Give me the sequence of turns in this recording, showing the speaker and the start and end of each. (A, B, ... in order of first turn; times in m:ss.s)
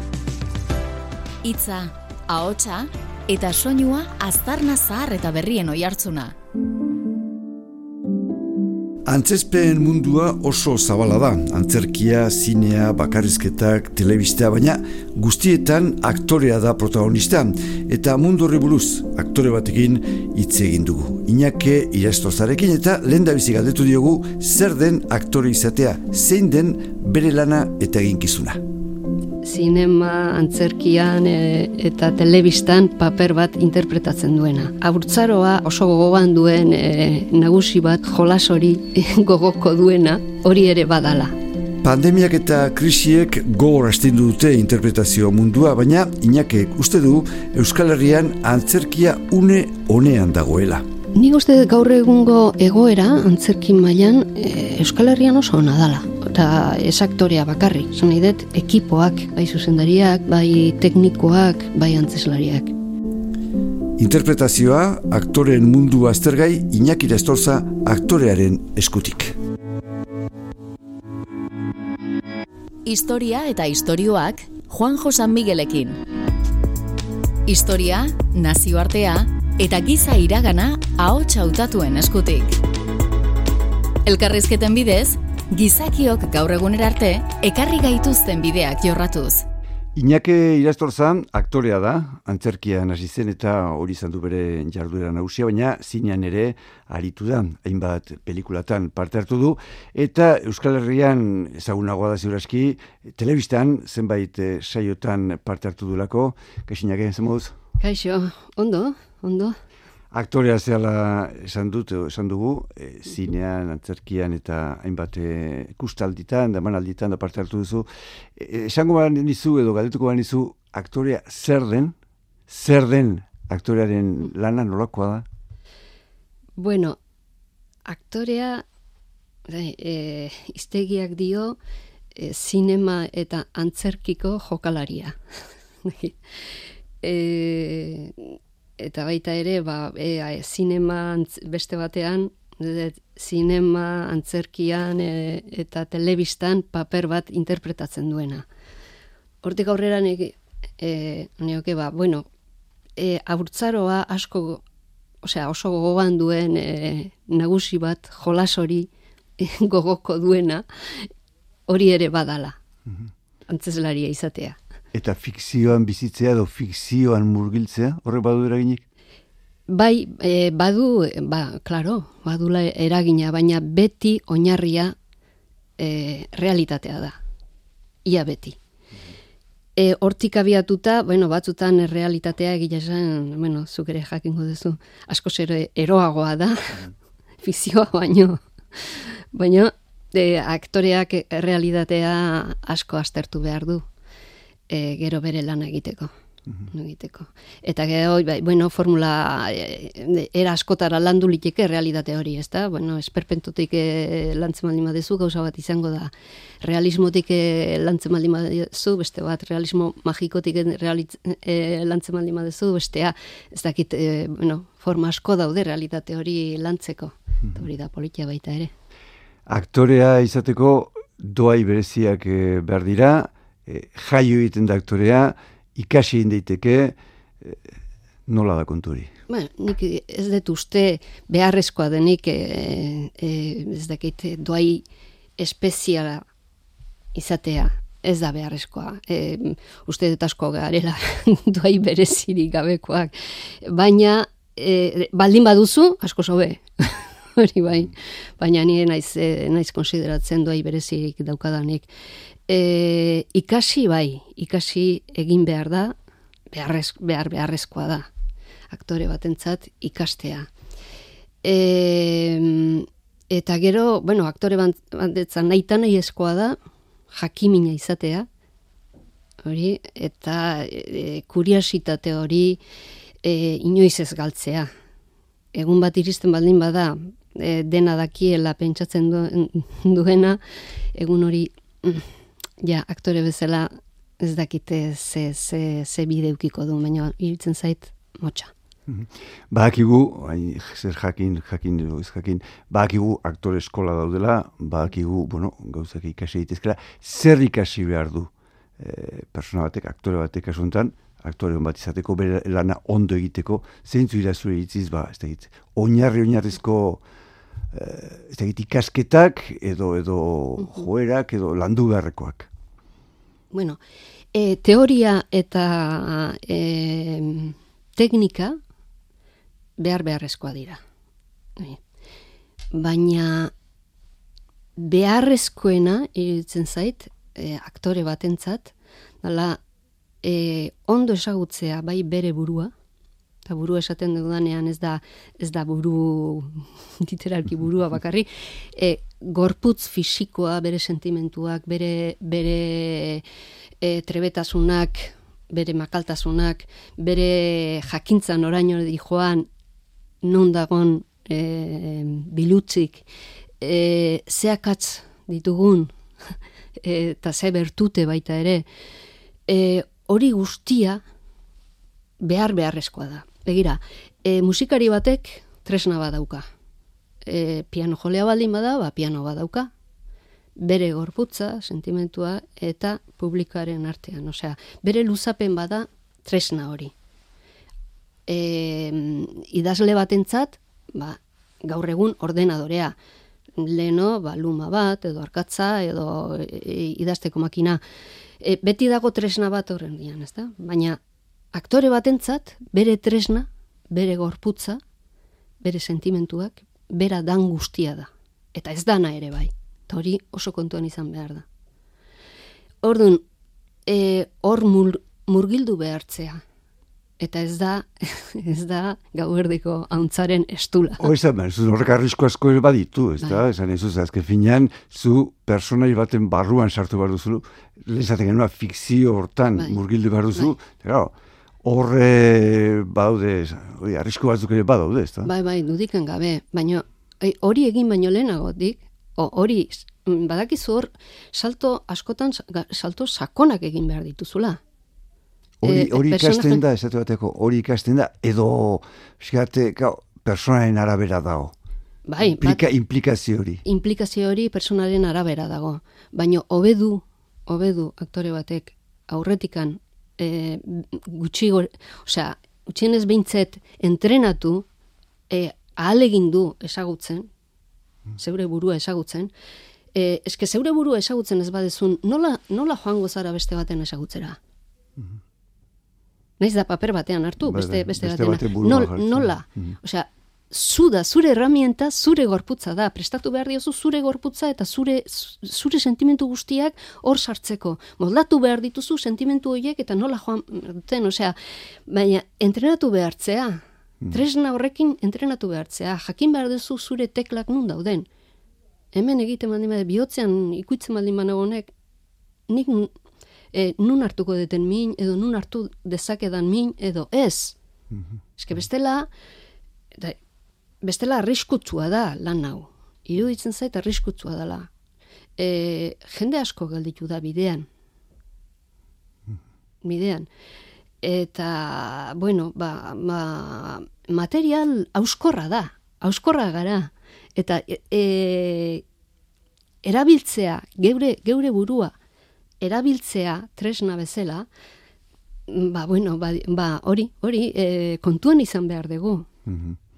0:01.4-0:06.3 A
0:09.1-0:28.6 B
0:29.4-0:41.3 C
0:41.8-0:50.8 B
0:51.1-1:02.7 C
1:04.0-1:09.4 B
1:12.8-1:16.0 A
1:17.4-1:22.6 A
1:24.0-1:29.4 A
1:30.0-1:47.6 B
1:47.8-1:49.6 C
1:50.1-2:01.9 B
2:02.5-2:05.2 B
2:06.6-2:07.0 C
2:07.9-2:08.6 C
2:09.5-2:11.6 C
2:12.2-2:15.2 C
2:15.8-2:28.5 C
2:29.4-2:32.3 C
2:33.0-2:34.6 C
2:35.2-2:41.1 C
2:41.7-2:42.6 C
2:43.5-2:44.6 C
2:44.9-2:48.8 B
2:49.7-2:55.0 C
2:55.8-2:57.2 C
2:58.1-2:58.6 C
2:59.8-3:13.8 C
3:14.7-3:16.1 C
3:16.7-3:38.7 C
3:39.5-3:47.7 B
3:48.3-3:49.1 B
3:49.3-3:54.8 C
3:55.4-3:56.2 C
3:57.1-4:11.9 C
4:12.5-4:16.0 C
4:16.5-4:18.1 C
4:18.7-4:20.5 C
4:21.4-4:26.6 C
4:27.1-4:28.3 C
4:29.4-4:32.6 C
4:33.2-4:34.7 C
4:35.6-4:40.4 C
4:40.9-4:42.1 C
4:42.6-4:48.5 C
4:48.9-5:07.0 B
5:07.7-5:12.5 B
5:13.5-5:13.8 C
5:14.3-5:18.6 C
5:19.8-5:20.8 C
5:22.7-5:23.5 C
5:24.8-5:29.6 C
5:30.2-5:32.7 C
5:33.4-5:43.2 C
5:43.8-5:49.5 C
5:50.2-5:53.1 C
5:53.6-5:58.7 C
5:59.5-6:01.0 C
6:02.2-6:06.4 C
6:07.2-6:09.7 C
6:10.6-6:16.9 C
6:18.3-6:23.0 C
6:23.6-6:27.8 C
6:28.4-6:31.0 C
6:31.5-6:34.8 C
6:35.6-6:41.4 C
6:42.8-6:43.2 C
6:43.9-6:46.4 C
6:47.2-6:51.1 C
6:51.0-7:05.3 B
7:05.2-7:14.6 C
7:15.6-7:21.5 B
7:15.6-7:16.6 C
7:22.1-7:22.7 C
7:22.2-7:23.6 B
7:23.6-7:34.7 C
7:35.3-7:37.3 C
7:38.2-7:39.3 C
7:39.9-7:44.4 C
7:46.4-8:01.4 C
7:47.4-7:49.8 B
8:01.9-8:08.1 C
8:08.9-8:11.7 C
8:12.5-8:12.9 C
8:13.5-8:17.6 C
8:18.4-8:19.1 C
8:20.8-8:24.7 C
8:25.4-8:27.7 C
8:29.8-8:30.3 C
8:31.0-8:38.8 C
8:39.8-8:41.9 C
8:42.6-8:44.5 C
8:45.5-8:49.3 C
8:49.5-8:49.8 B